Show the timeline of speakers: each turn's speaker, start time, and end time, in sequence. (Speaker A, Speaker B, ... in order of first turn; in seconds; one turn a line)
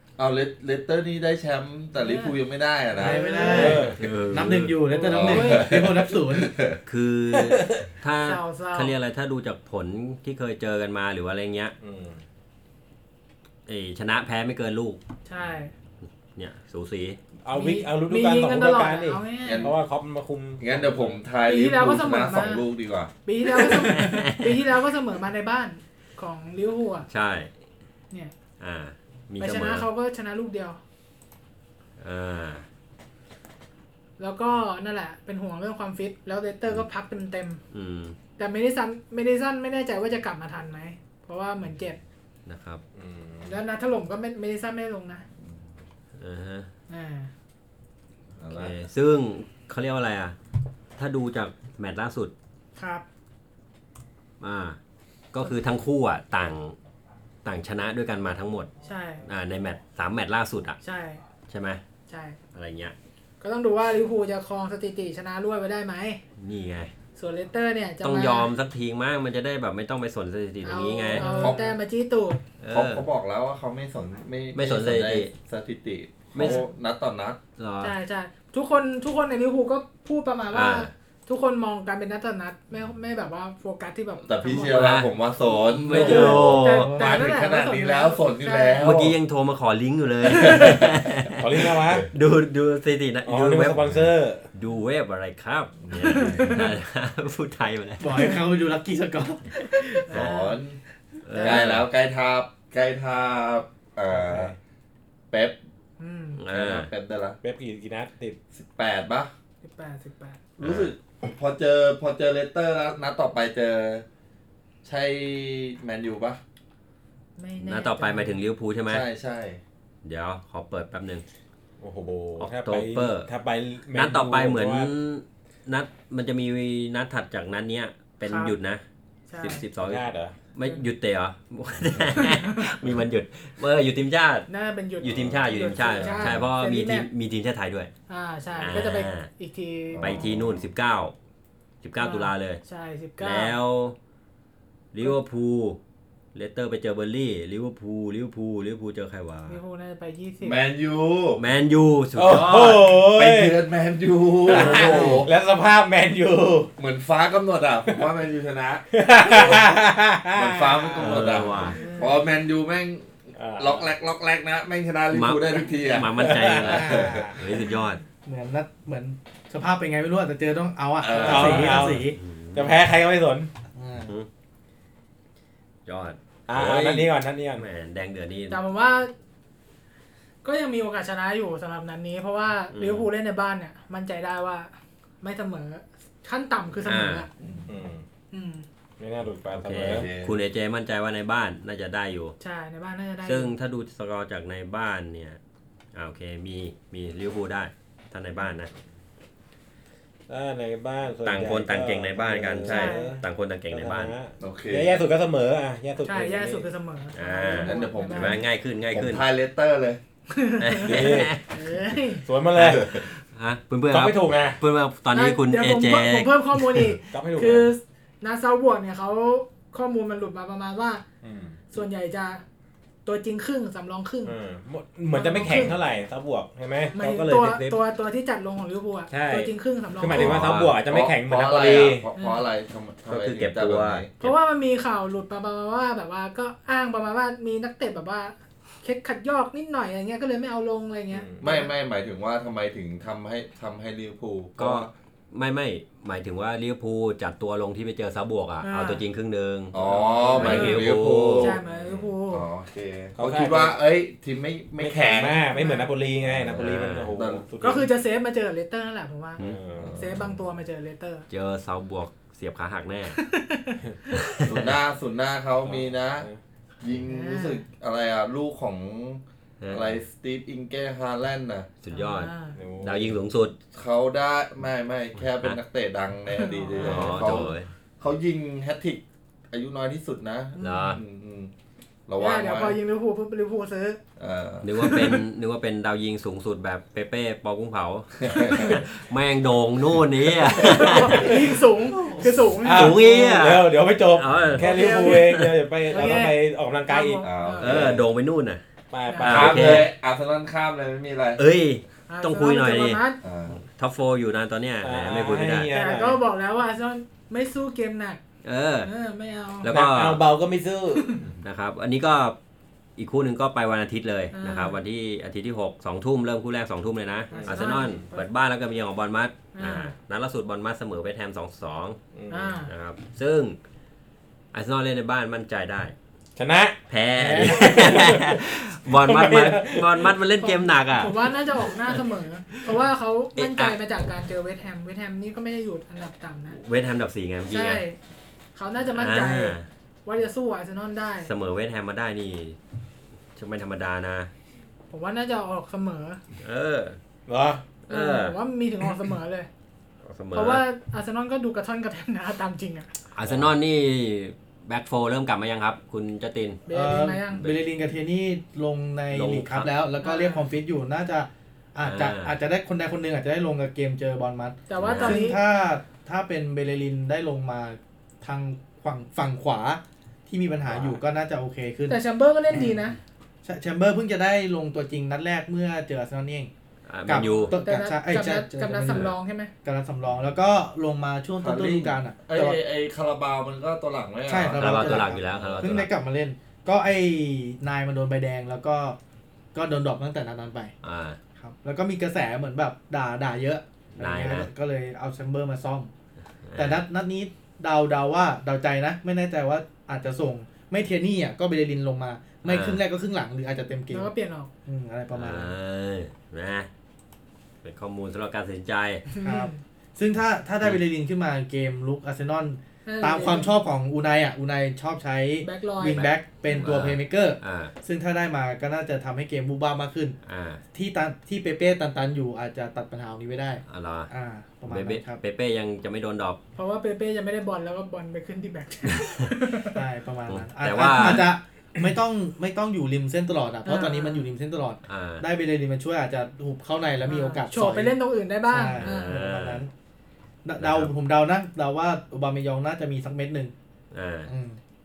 Speaker A: 0.2-3.4
Speaker B: 2.0-2.4
Speaker C: 3.0-6.5
Speaker B: 3.0-3.9
Speaker D: 3.5-4.0
Speaker E: 3.6-4.8
Speaker B: 5.0-5.8
Speaker A: 5.0-6.8
Speaker E: 6.8-11.7
Speaker D: 7.3-7.8
Speaker B: 8.1-8.9
Speaker D: 11.8-12.2
Speaker E: 13.7-15.0
Speaker B: 15.2-15.7
Speaker E: 16.3-17.2
Speaker D: 17.4-21.2
Speaker B: 17.5-19.7
Speaker A: 19.4-19.8
Speaker A: 20.6-23.1
Speaker B: 21.4-22.6
Speaker B: 23.2-27.1
Speaker E: 23.5-24.6
Speaker E: 27.1-27.5
Speaker E: 28.6-29.9
Speaker B: 29.4-30.8
Speaker E: 32.0-32.6
Speaker B: 34.2-37.6
Speaker E: 37.7-38.2
Speaker B: 38.4-42.0
Speaker E: 42.5-42.8
Speaker D: 43.0-43.6
Speaker B: 43.4-45.2
Speaker E: 46.2-46.7
Speaker B: 46.9-47.3
Speaker A: 48.4-48.8
Speaker E: 48.5-50.4
Speaker E: 51.0-52.3
Speaker B: 52.8-53.0
Speaker E: 54.4-54.8
Speaker E: 55.3-56.8
Speaker E: 57.4-58.7
Speaker B: 58.8-59.3
Speaker E: 59.2-60.8
Speaker B: 60.8-61.2
Speaker E: 61.5-61.8
Speaker B: 62.1-62.4
Speaker E: 62.5-62.9
Speaker B: 63.4-66.2
Speaker E: 66.4-66.9
Speaker B: 67.1-68.5
Speaker E: 68.0-71.6
Speaker B: 70.6-72.4
Speaker A: 71.1-71.8
Speaker E: 72.6-73.0
Speaker A: 72.7-77.4
Speaker E: 74.5-75.3
Speaker E: 76.3-76.6
Speaker B: 76.4-76.7
Speaker E: 77.6-77.9
Speaker B: 77.8-85.0
Speaker E: 80.5-80.9
Speaker A: 84.2-89.2
Speaker E: 84.5-87.0
Speaker C: 85.9-87.2
Speaker B: 85.9-89.1
Speaker E: 88.8-98.3
Speaker B: 90.4-90.8
Speaker D: 91.4-92.0
Speaker D: 93.2-94.5
Speaker A: 95.8-96.5
Speaker B: 96.0-96.7
Speaker C: 98.0-100.0
Speaker B: 100.0-100.6
Speaker A: 100.1-100.8
Speaker E: 101.2-101.8
Speaker B: 101.3-101.7
Speaker A: 101.4-104.5
Speaker D: 104.1-104.5
Speaker A: 105.3-105.6
Speaker B: 106.0-106.4
Speaker E: 106.3-106.9
Speaker A: 106.5-107.4
Speaker D: 107.4-108.4
Speaker A: 108.5-109.3
Speaker B: 109.6-110.4
Speaker A: 110.6-114.0
Speaker E: 110.6-110.9
Speaker A: 114.8-116.4
Speaker B: 117.4-118.4
Speaker E: 117.6-119.0
Speaker A: 118.9-119.6
Speaker E: 120.0-121.2
Speaker D: 121.8-124.9
Speaker E: 122.4-123.3
Speaker E: 123.9-128.8
Speaker B: 128.2-128.6
Speaker B: 129.3-129.6
Speaker E: 129.4-134.5
Speaker D: 129.8-130.3
Speaker B: 132.2-132.6
Speaker B: 134.5-137.1
Speaker E: 135.0-137.9
Speaker A: 135.0-136.5
Speaker B: 138.1-140.3
Speaker E: 138.5-139.3
Speaker A: 139.9-140.7
Speaker E: 140.0-141.1
Speaker E: 141.8-142.6
Speaker B: 142.0-143.6
Speaker E: 143.2-144.0
Speaker E: 144.9-145.8
Speaker E: 146.3-149.6
Speaker B: 149.5-150.6
Speaker A: 150.4-151.4
Speaker E: 151.3-152.8
Speaker D: 152.2-153.6
Speaker A: 152.3-155.3
Speaker D: 154.4-156.7
Speaker E: 154.5-155.2
Speaker A: 156.8-159.7
Speaker D: 158.9-161.6
Speaker A: 160.3-167.3
Speaker E: 161.0-161.8
Speaker B: 161.7-162.2
Speaker D: 163.3-163.9
Speaker E: 165.1-168.0
Speaker D: 166.1-167.2
Speaker C: 166.7-167.3
Speaker C: 168.2-172.2
Speaker A: 171.0-171.9
Speaker D: 171.1-173.5
Speaker E: 172.0-172.8
Speaker C: 173.7-174.1
Speaker E: 175.8-178.6
Speaker D: 176.5-177.6
Speaker B: 178.5-179.1
Speaker B: 180.4-187.3
Speaker E: 182.7-183.1
Speaker E: 186.8-187.2
Speaker A: 187.4-187.7
Speaker D: 187.7-188.0
Speaker B: 188.3-188.6
Speaker D: 189.0-190.1
Speaker E: 189.5-192.3
Speaker A: 189.7-190.3
Speaker B: 192.4-193.5
Speaker E: 193.2-195.4
Speaker E: 195.9-198.7
Speaker D: 200.3-206.7
Speaker E: 201.2-204.1
Speaker B: 202.6-203.2
Speaker A: 204.4-205.0
Speaker B: 206.0-208.4
Speaker E: 207.1-209.2
Speaker A: 207.6-210.0
Speaker B: 210.3-212.2
Speaker E: 210.6-211.5
Speaker D: 210.8-211.3
Speaker D: 212.2-213.0
Speaker E: 212.5-216.8
Speaker D: 213.9-214.6
Speaker B: 215.1-221.0
Speaker D: 217.1-217.7
Speaker D: 221.2-221.6
Speaker B: 221.7-222.4
Speaker B: 223.0-224.3
Speaker D: 224.2-227.8
Speaker B: 225.1-225.8
Speaker B: 226.9-230.4
Speaker D: 229.1-232.1
Speaker A: 230.0-234.1
Speaker E: 230.4-230.7
Speaker B: 232.2-232.4
Speaker E: 233.1-234.4
Speaker B: 234.2-241.7
Speaker D: 241.1-241.4
Speaker A: 241.4-244.9
Speaker E: 244.6-249.7
Speaker B: 248.6-249.0
Speaker A: 249.7-255.4
Speaker D: 249.7-250.8
Speaker E: 250.3-251.6
Speaker B: 250.4-252.5
Speaker D: 253.2-253.8
Speaker D: 254.8-257.9
Speaker B: 255.4-255.9
Speaker A: 256.3-257.4
Speaker E: 256.5-257.1
Speaker B: 257.6-259.4
Speaker D: 259.4-260.0
Speaker A: 259.8-260.4
Speaker B: 259.9-261.2
Speaker E: 261.3-263.2
Speaker B: 263.2-263.8
Speaker E: 264.1-264.7
Speaker A: 264.4-266.3
Speaker D: 265.6-266.4
Speaker A: 266.8-271.7
Speaker B: 267.1-267.6
Speaker E: 269.6-270.0
Speaker E: 271.8-273.5
Speaker B: 271.9-272.6
Speaker D: 272.5-273.2
Speaker A: 273.7-281.5
Speaker E: 275.2-275.6
Speaker B: 276.3-277.5
Speaker E: 276.8-277.7
Speaker B: 280.6-281.0
Speaker E: 280.6-281.0
Speaker A: 282.1-282.8
Speaker B: 282.2-284.0
Speaker A: 284.2-285.2
Speaker E: 284.6-291.3
Speaker A: 288.2-288.8
Speaker B: 290.5-293.0
Speaker D: 291.1-291.5
Speaker D: 292.6-297.2
Speaker E: 292.6-295.5
Speaker B: 294.6-297.9
Speaker A: 297.2-298.0
Speaker E: 297.6-298.6
Speaker D: 298.9-299.9
Speaker B: 299.1-299.7
Speaker E: 299.2-299.9
Speaker A: 299.3-301.4
Speaker E: 301.4-303.0
Speaker B: 302.1-303.2
Speaker A: 303.2-303.6
Speaker E: 303.5-305.7
Speaker D: 304.8-306.2
Speaker B: 305.7-308.2
Speaker E: 308.4-308.9
Speaker B: 308.8-309.7
Speaker E: 309.6-310.2
Speaker D: 309.6-311.2
Speaker B: 310.9-311.2
Speaker E: 311.4-312.4
Speaker E: 313.0-322.0
Speaker B: 314.3-314.8
Speaker D: 317.3-318.0
Speaker B: 317.3-318.2
Speaker B: 319.5-319.9
Speaker D: 322.1-322.6
Speaker B: 322.3-322.7
Speaker E: 322.6-323.6
Speaker E: 324.5-325.9
Speaker D: 326.4-330.1
Speaker E: 326.9-331.3
Speaker C: 327.2-327.6
Speaker B: 330.4-336.6
Speaker E: 333.4-333.8
Speaker E: 336.5-337.8
Speaker B: 337.5-338.0
Speaker B: 338.5-341.3
Speaker E: 338.9-339.6
Speaker E: 341.2-342.6
Speaker E: 343.4-344.3
Speaker B: 344.9-346.2
Speaker E: 346.4-347.0
Speaker D: 347.3-347.6
Speaker E: 347.9-348.4
Speaker B: 347.9-349.5
Speaker E: 350.1-350.6
Speaker B: 350.3-352.9
Speaker E: 353.1-356.6
Speaker B: 356.7-357.4
Speaker C: 356.7-372.0
Speaker E: 359.1-359.7
Speaker B: 360.0-360.4
Speaker E: 361.8-362.3
Speaker B: 364.7-365.4
Speaker E: 364.8-365.3
Speaker B: 371.9-373.0
Speaker C: 373.4-376.5
Speaker E: 376.9-377.6
Speaker C: 377.1-382.6
Speaker B: 377.5-379.5
Speaker A: 381.4-385.7
Speaker C: 384.3-389.0
Speaker E: 384.6-385.9
Speaker C: 389.5-390.7
Speaker E: 390.8-391.2
Speaker C: 391.4-395.9
Speaker E: 393.9-394.5
Speaker E: 396.4-396.8
Speaker C: 396.6-404.1
Speaker E: 402.4-402.8
Speaker B: 403.9-404.5
Speaker C: 404.6-405.5
Speaker E: 405.1-406.7
Speaker E: 407.6-409.1
Speaker B: 409.1-409.6
Speaker C: 409.2-420.1
Speaker B: 412.9-413.5
Speaker B: 415.4-416.1
Speaker E: 415.9-417.7
Speaker E: 420.2-420.6
Speaker C: 420.7-425.2
Speaker E: 423.7-424.1
Speaker E: 424.7-426.4
Speaker B: 426.6-429.8
Speaker E: 428.9-429.3
Speaker C: 429.7-437.9
Speaker E: 430.3-431.3
Speaker B: 433.6-434.3
Speaker E: 434.9-435.2
Speaker B: 437.1-439.2
Speaker C: 438.5-439.7
Speaker E: 438.8-439.6
Speaker C: 440.4-443.5
Speaker E: 440.6-440.9
Speaker E: 443.9-444.3
Speaker C: 444.3-444.6